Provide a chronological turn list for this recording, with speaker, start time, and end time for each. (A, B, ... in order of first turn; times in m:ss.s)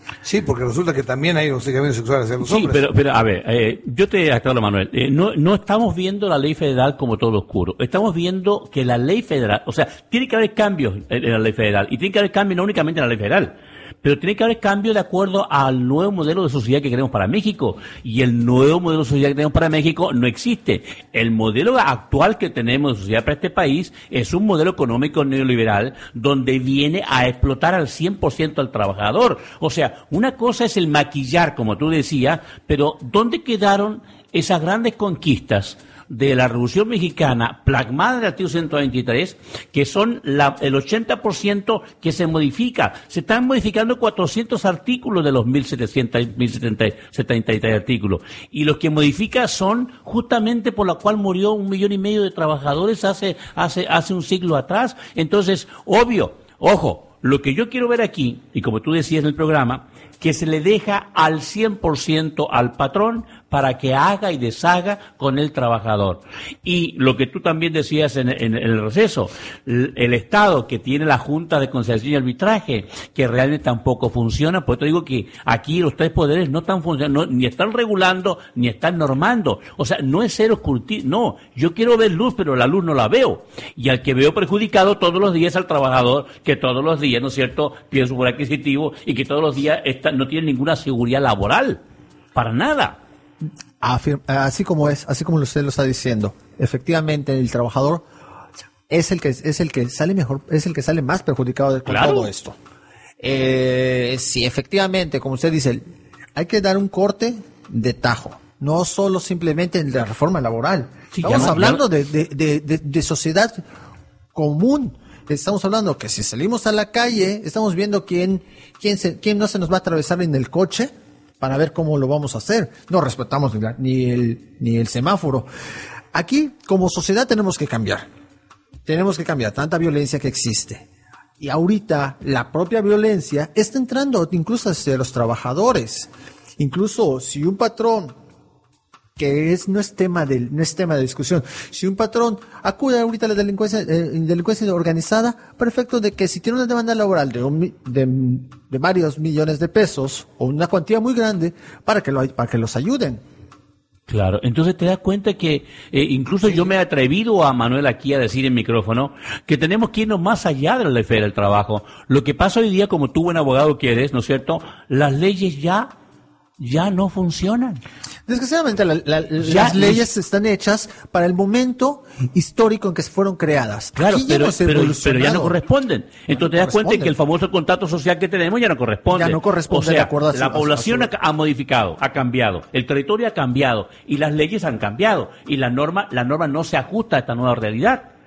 0:00.2-0:02.8 A
0:02.4-1:31.8 B
1:32.3-1:33.0 B
1:33.8-1:38.0 C
1:38.9-1:42.6 C
1:41.8-1:42.3 B
1:43.2-1:53.6 C
1:51.1-1:51.8 B
1:54.3-2:05.5 C
2:06.1-2:08.1 C
2:08.8-2:10.9 C
2:11.4-2:18.2 C
2:19.2-2:33.2 C
2:34.1-2:45.9 B
2:46.6-2:47.8 B
2:48.3-2:55.6 C
2:49.4-2:50.0 B
2:54.0-3:08.1 B
2:56.3-2:57.2 C
2:59.1-3:01.1 C